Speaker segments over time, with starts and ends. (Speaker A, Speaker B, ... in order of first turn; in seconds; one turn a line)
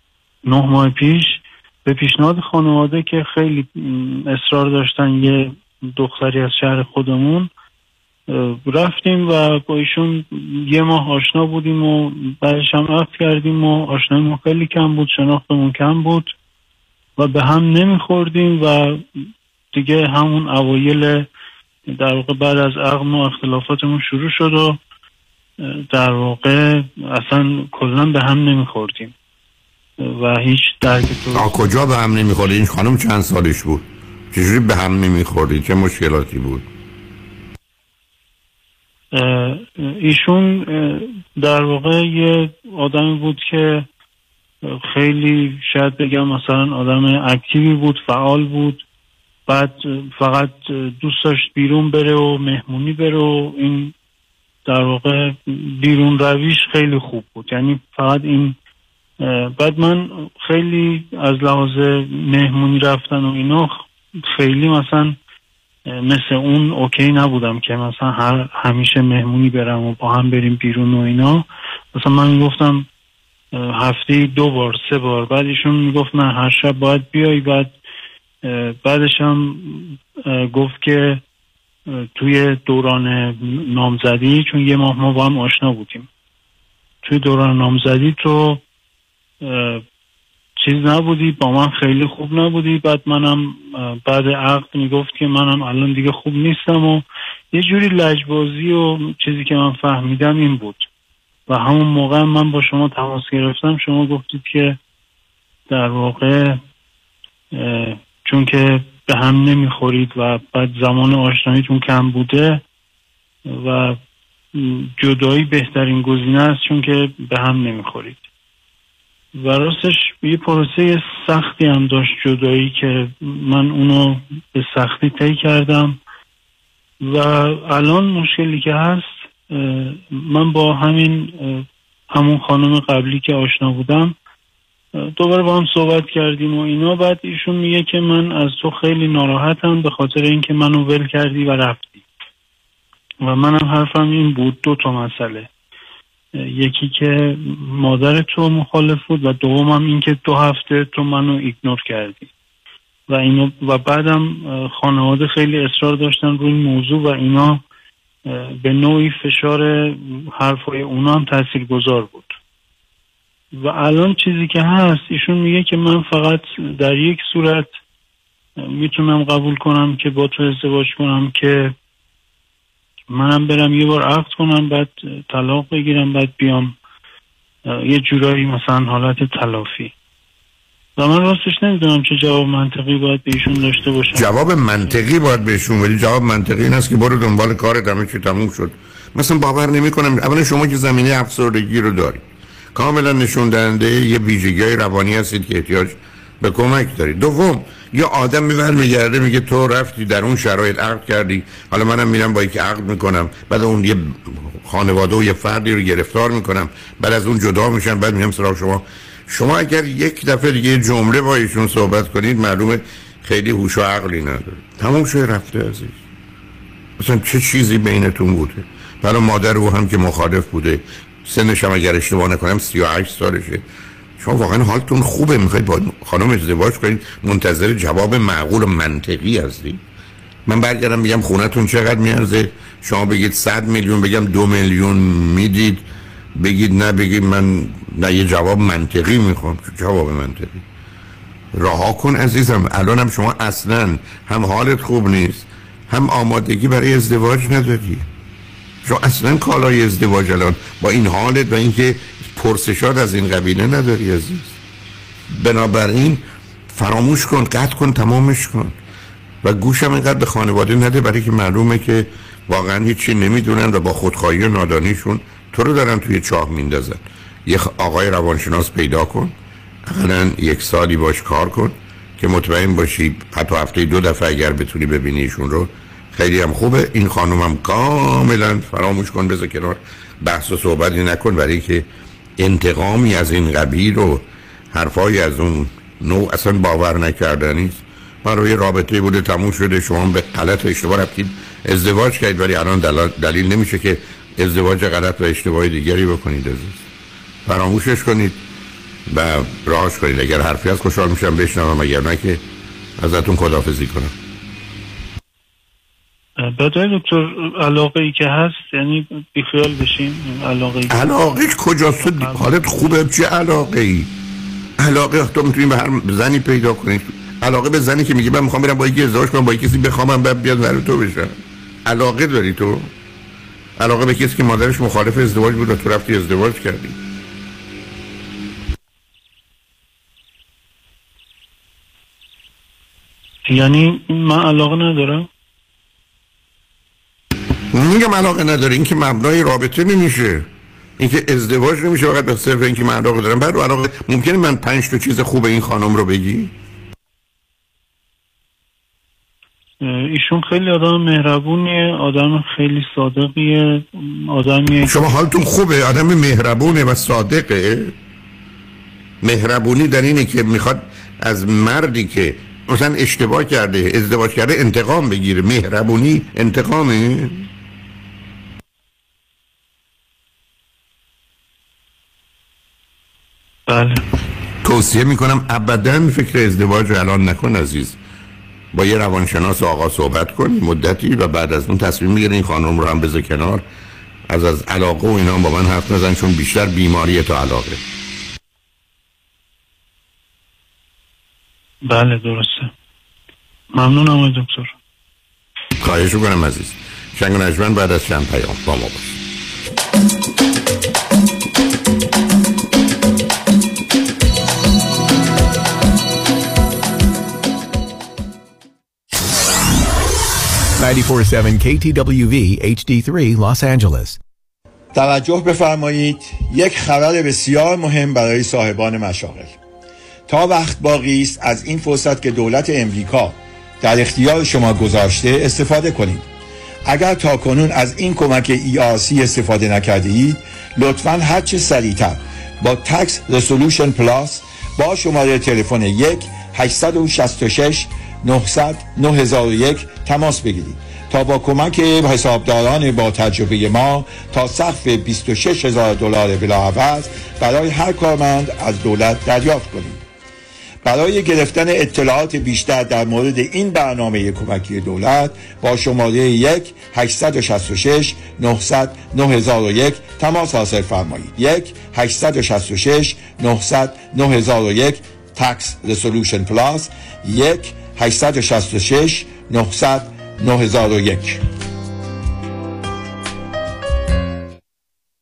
Speaker A: 0.5-7.5
Speaker A: 8.3-16.3
Speaker A: 17.2-19.0
Speaker A: 19.7-21.3
Speaker A: 21.9-24.8
Speaker A: 25.6-29.1
Speaker A: 30.0-31.6
Speaker B: 31.3-36.7
Speaker A: 39.1-43.9
Speaker A: 44.7-48.8
Speaker A: 49.5-53.9
Speaker A: 54.7-58.6
Speaker A: 59.2-65.2
Speaker A: 65.9-72.9
Speaker A: 73.5-77.7
Speaker A: 78.4-81.2
Speaker A: 81.9-86.1
Speaker A: 87.0-88.6
Speaker A: 89.4-89.8
Speaker A: 90.6-100.9
Speaker A: 101.5-104.8
Speaker A: 105.7-106.6
Speaker A: 107.5-112.6
Speaker A: 113.5-114.0
Speaker A: 114.5-118.2
Speaker A: 119.4-126.0
Speaker A: 127.0-134.2
Speaker A: 135.0-142.0
Speaker A: 143.2-145.5
Speaker A: 146.3-152.3
Speaker A: 153.1-157.6
Speaker A: 158.3-162.3
Speaker A: 163.6-167.7
Speaker A: 168.6-171.8
Speaker A: 173.1-176.7
Speaker A: 177.7-179.9
Speaker A: 181.0-184.3
Speaker B: 184.2-192.2
Speaker B: 192.8-216.0
Speaker B: 217.0-223.6
Speaker B: 224.2-229.8
Speaker B: 230.5-235.8
Speaker B: 236.4-240.6
Speaker B: 241.5-248.1
Speaker B: 248.8-254.6
Speaker B: 255.3-256.2
Speaker B: 256.7-258.8
Speaker B: 259.4-269.4
Speaker B: 269.9-281.9
Speaker B: 282.4-296.9
Speaker B: 297.4-298.4
Speaker B: 299.1-302.4
Speaker B: 303.0-304.1
Speaker A: 306.4-311.0
Speaker B: 310.9-314.1
Speaker A: 312.0-312.5
Speaker B: 314.8-322.9
Speaker B: 323.8-327.0
Speaker A: 333.5-335.3
Speaker B: 337.7-340.5
Speaker B: 341.0-346.5
Speaker A: 349.8-355.0
Speaker B: 354.8-357.9
Speaker B: 359.2-367.5
Speaker A: 373.7-374.0
Speaker B: 374.6-378.0
Speaker B: 378.7-383.6
Speaker B: 384.3-387.8
Speaker A: 391.9-392.7
Speaker A: 393.7-394.8
Speaker B: 395.8-399.2
Speaker C: 410.8-414.2
Speaker D: 414.9-419.6
Speaker D: 420.3-426.3
Speaker D: 426.9-450.0
Speaker D: 450.8-471.4